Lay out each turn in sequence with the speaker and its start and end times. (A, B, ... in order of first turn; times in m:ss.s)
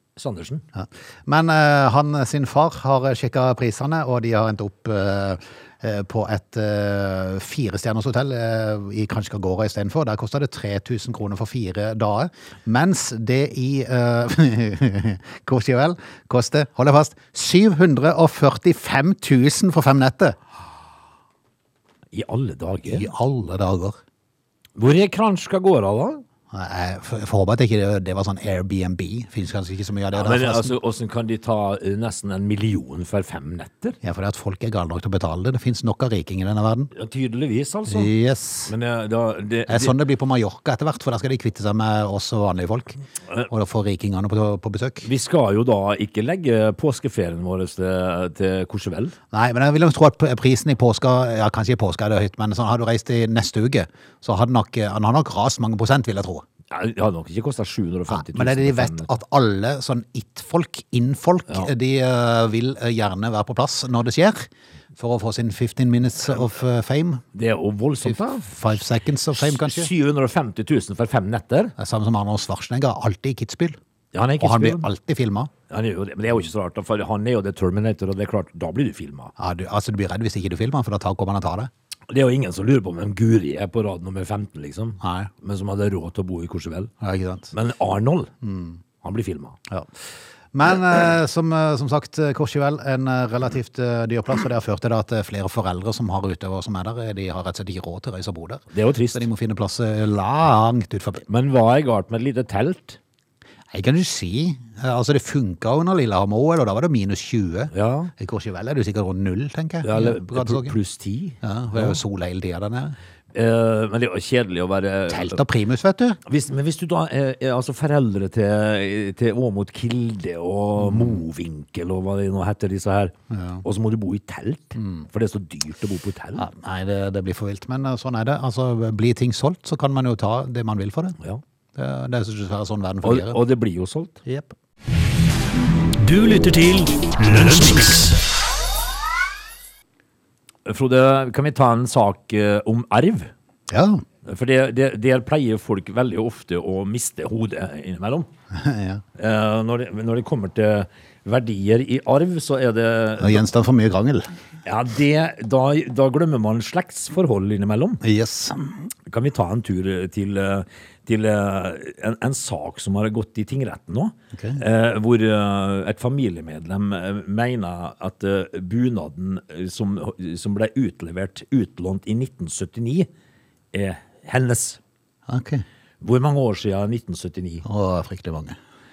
0:00.2-0:00.6 A
0:00.8-0:20.4 B
0:22.1-0:23.1 A
0:22.9-0:24.0 B
0:24.8-0:26.2 A
0:26.5-0:30.7 B
0:30.1-0:34.0 A
0:34.0-0:36.9 B
0:36.9-0:38.1 A
0:37.9-0:38.7 B
0:38.7-0:40.0 A
0:39.7-0:45.1 B
0:45.0-0:49.2 A
0:49.3-0:56.4 B
0:56.7-0:59.1 A
0:58.1-1:07.2 B
1:07.3-1:08.5 A
1:08.0-1:09.9 B
1:09.4-1:11.8 A
1:11.8-1:13.8 B
1:14.1-1:14.9 A
1:14.4-1:15.5 B
1:15.7-1:19.3 A
1:19.4-1:21.7 B
1:22.1-1:26.9 A
1:25.0-1:25.3 B
1:27.0-1:27.5 B
1:27.5-1:28.3 A
1:28.4-1:28.8 B
1:29.0-1:29.6 A
1:30.5-1:41.2 B
1:38.7-1:39.2 A
1:41.3-1:43.0 A
1:43.7-1:50.8 B
1:47.7-1:48.1 A
1:49.8-1:52.0 A
1:51.4-1:53.0 B
1:53.3-1:55.4 A
1:55.1-1:56.2 B
1:56.3-2:06.5 A
2:00.8-2:01.2 B
2:03.3-2:03.6 B
2:04.8-2:05.1 B
2:06.4-2:11.2 B
2:11.8-2:13.4 B
2:13.0-2:14.2 A
2:14.2-2:14.5 B
2:16.0-2:18.2 A
2:20.6-2:23.3 A
2:23.7-2:24.0 B
2:24.2-2:28.3 A
2:28.5-2:29.0 B
2:29.2-2:33.5 A
2:33.2-2:34.3 B
2:34.6-2:38.0 A
2:38.0-2:38.9 B
2:39.1-2:53.1 A
2:44.3-2:44.6 B
2:53.7-2:54.8 A
2:55.3-2:55.6 B
2:56.0-2:57.6 A
2:57.6-2:58.6 B